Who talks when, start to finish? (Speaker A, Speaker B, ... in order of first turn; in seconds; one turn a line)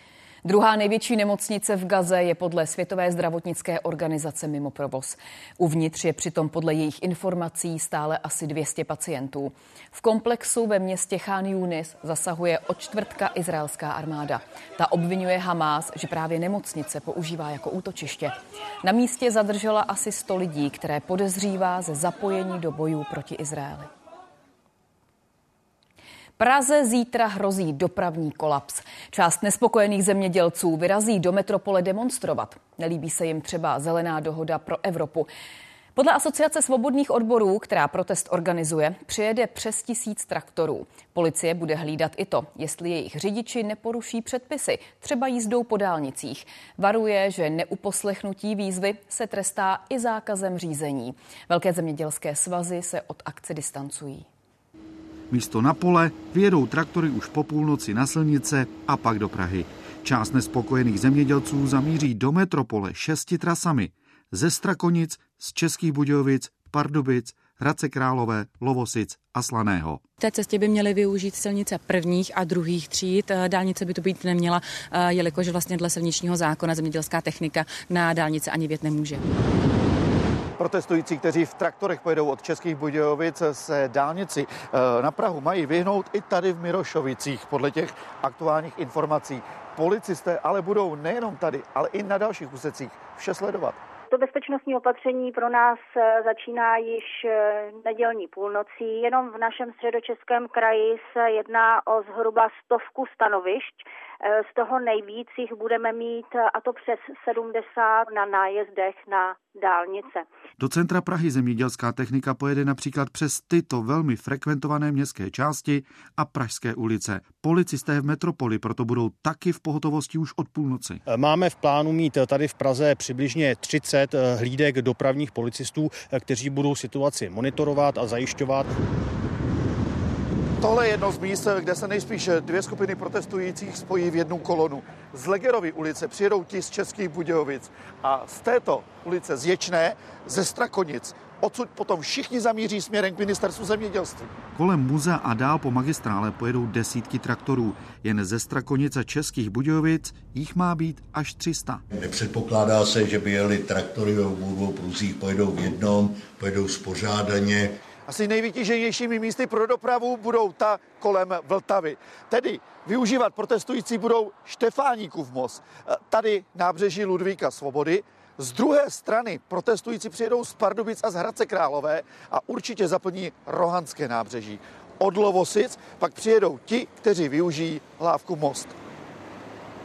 Speaker A: 0.4-23.9
Speaker A: 26.4-35.3
Speaker A: 35.9-54.2
Speaker B: 55.3-70.0
Speaker C: 70.2-79.2
Speaker D: 80.6-93.8
Speaker E: 94.1-110.2
Speaker B: 110.6-121.0
Speaker F: 121.1-128.7
Speaker D: 130.6-144.3
Speaker B: 144.5-151.8
Speaker G: 152.0-157.6
Speaker D: 158.1-178.7